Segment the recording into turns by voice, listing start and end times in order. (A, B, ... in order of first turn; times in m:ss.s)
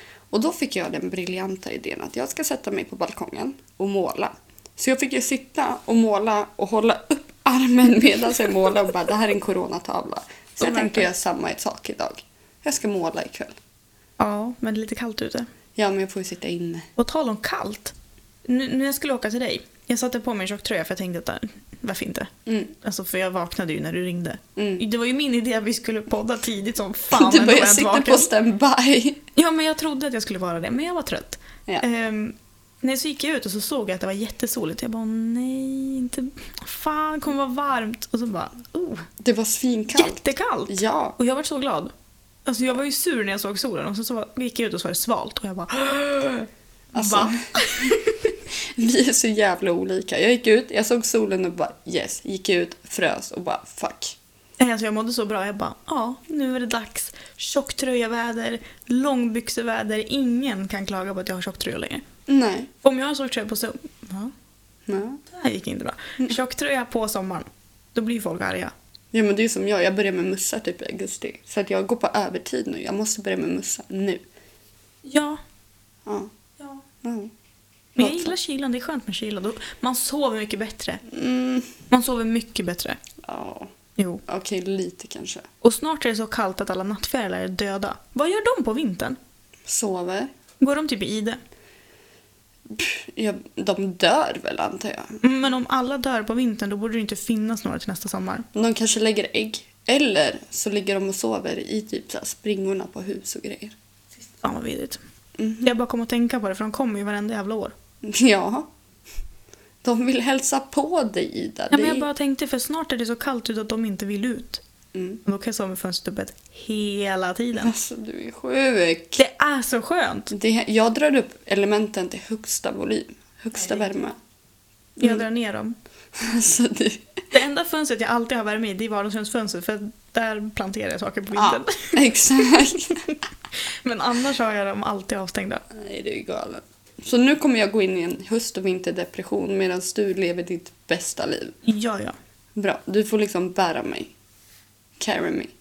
0:00.3-0:13.6 A
0:10.6-0:11.1 B
0:14.2-0:15.5 B
0:15.8-0:16.9 A
0:17.0-0:17.9 B
0:18.4-0:28.3 B
0:22.4-0:22.7 A
0:24.6-0:24.8 A
0:27.1-0:29.2 A
0:29.4-0:39.1 B
0:39.2-0:41.2 A
0:39.9-0:41.9 B
0:42.4-0:48.3 B
0:46.9-0:47.5 A
0:48.8-0:54.2 A
0:54.6-1:02.0 B
1:02.3-1:02.7 A
1:02.8-1:04.3 B
1:04.9-1:05.2 A
1:05.3-1:08.7 B
1:09.1-1:14.2 A
1:15.0-1:15.4 B
1:16.1-1:16.3 A
1:17.0-1:17.3 A
1:18.0-1:21.0 B
1:18.0-1:18.3 A
1:21.1-1:21.7 A
1:21.9-1:23.0 B
1:23.2-1:23.7 A
1:24.0-1:24.2 B
1:24.2-1:25.5 A
1:25.6-1:29.2 B
1:29.7-1:30.3 A
1:30.6-1:31.4 B
1:32.7-1:35.2 A
1:35.2-1:38.4 B
1:38.5-1:43.8 A
1:44.2-1:45.0 B
1:45.4-1:45.7 A
1:45.6-1:47.8 B
1:48.0-1:48.7 A
1:49.8-1:52.1 A
1:51.7-1:54.6 B
1:54.9-1:55.2 A
1:55.2-1:57.7 B
1:57.6-1:59.2 A
1:59.2-2:00.3 B
2:00.3-2:04.2 A
2:03.6-2:03.9 B
2:05.0-2:05.8 B
2:06.2-2:07.1 A
2:07.3-2:12.0 B
2:11.4-2:13.0 A
2:13.8-2:15.6 B
2:15.7-2:21.6 A
2:21.6-2:22.1 B
2:22.6-2:24.1 A
2:25.0-2:25.5 A